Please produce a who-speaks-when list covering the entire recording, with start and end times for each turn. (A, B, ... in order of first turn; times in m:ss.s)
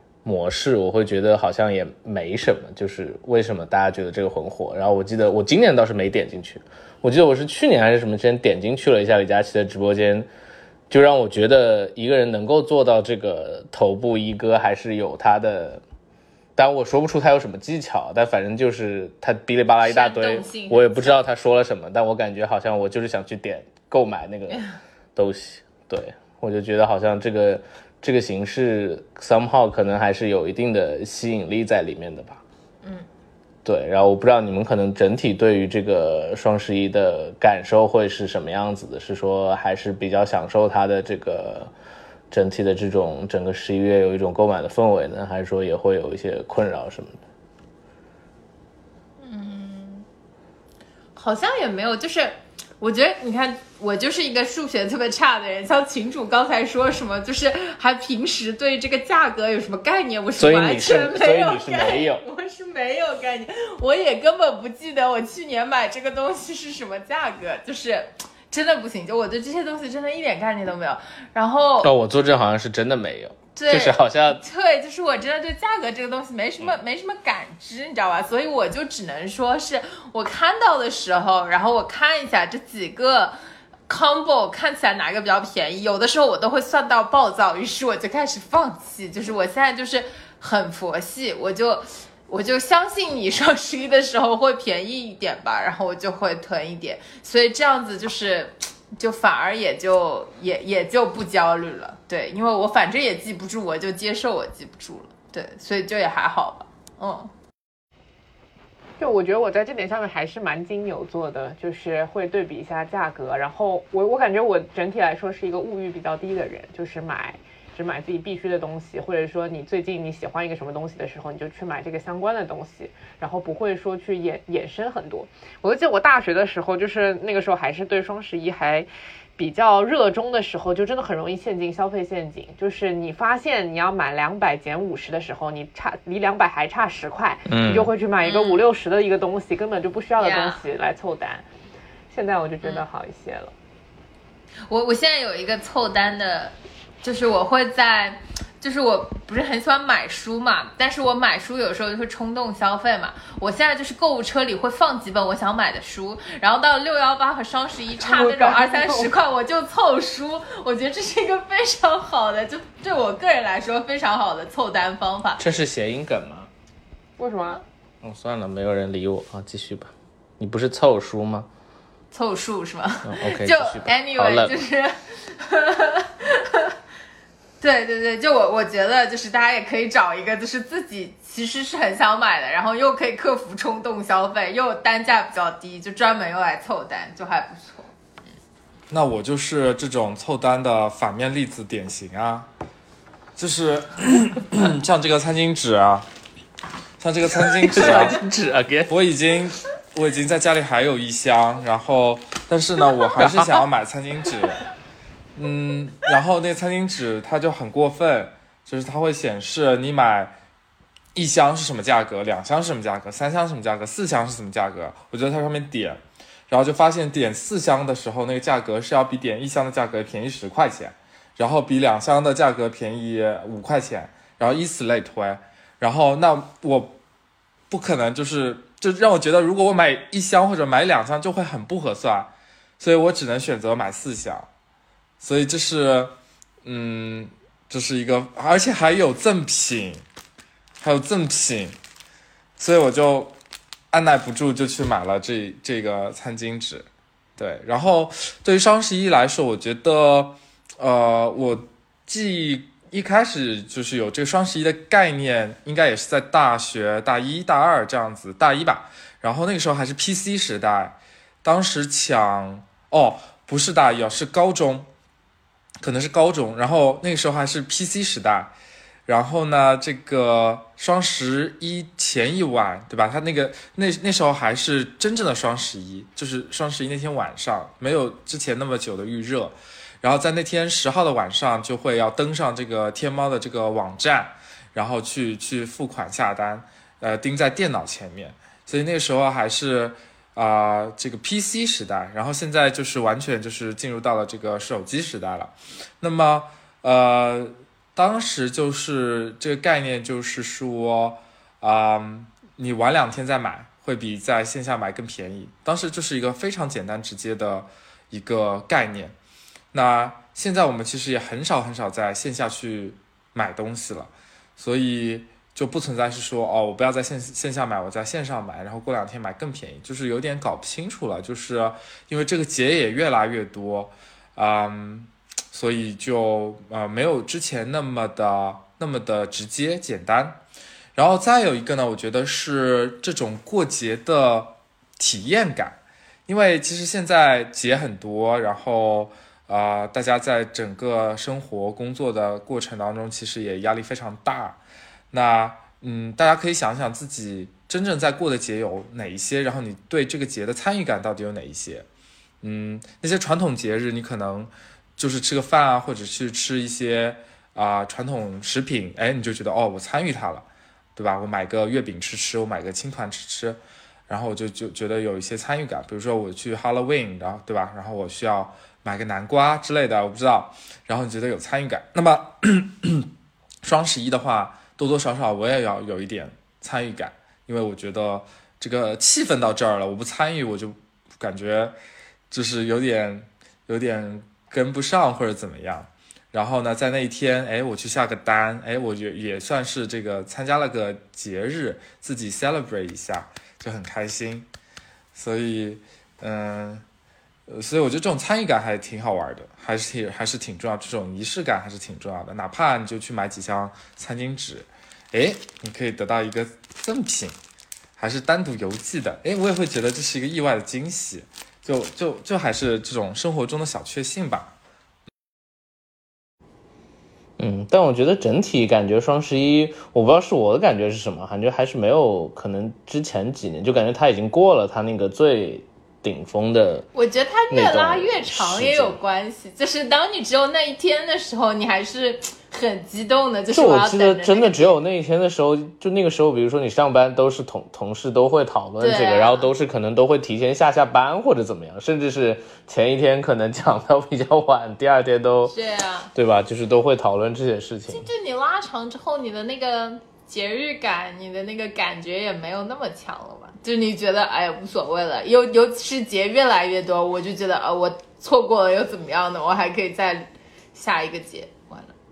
0:00.2-0:10.3 A
0:10.9-0:15.8 A
0:16.6-0:24.6 A
0:19.8-0:21.2 B
0:25.2-0:32.4 A
0:33.6-0:41.7 A
0:42.3-0:47.2 A
0:49.2-0:50.0 B
0:51.1-1:11.9 B
1:00.4-1:02.2 A
1:11.8-1:14.4 A
1:13.6-1:47.3 B
1:49.0-2:21.4 C
2:17.5-2:17.9 A
2:18.2-2:18.6 B
2:20.2-2:20.6 B
2:22.1-2:23.5 C
2:24.7-2:45.4 B
2:38.0-2:39.1 C
2:45.4-2:46.5 A
2:47.2-2:47.6 C
2:48.0-2:51.5 A
2:52.1-2:56.7 B
2:53.0-2:54.5 A
2:57.6-3:07.9 B
3:08.9-3:12.5 D
3:13.4-3:16.1 D
3:17.0-3:18.2 D
3:17.4-3:18.9 A
3:18.9-3:24.6 D
3:23.2-3:23.6 A
3:25.3-3:30.3 D
3:31.1-3:47.0 D
3:47.7-3:54.5 D
3:55.2-4:00.0 D
4:00.8-4:01.8 D
4:02.6-4:03.4 D
4:03.9-4:24.9 D
4:25.8-4:28.5 D
4:29.1-5:09.1 D
5:09.7-5:30.4 D
5:30.9-5:44.6 D
5:45.1-5:51.8 D
5:52.4-6:13.1 D
6:13.6-6:21.7 D
6:22.3-6:34.5 D
6:35.1-6:36.8 D
6:37.5-6:47.3 D
6:48.0-6:54.5 D
6:57.4-7:06.8 A
7:06.9-7:14.7 B
7:07.5-7:09.0 A
7:13.5-7:25.5 A
7:18.8-7:19.5 B
7:25.4-7:26.1 B
7:26.1-7:28.1 A
7:27.9-7:41.9 B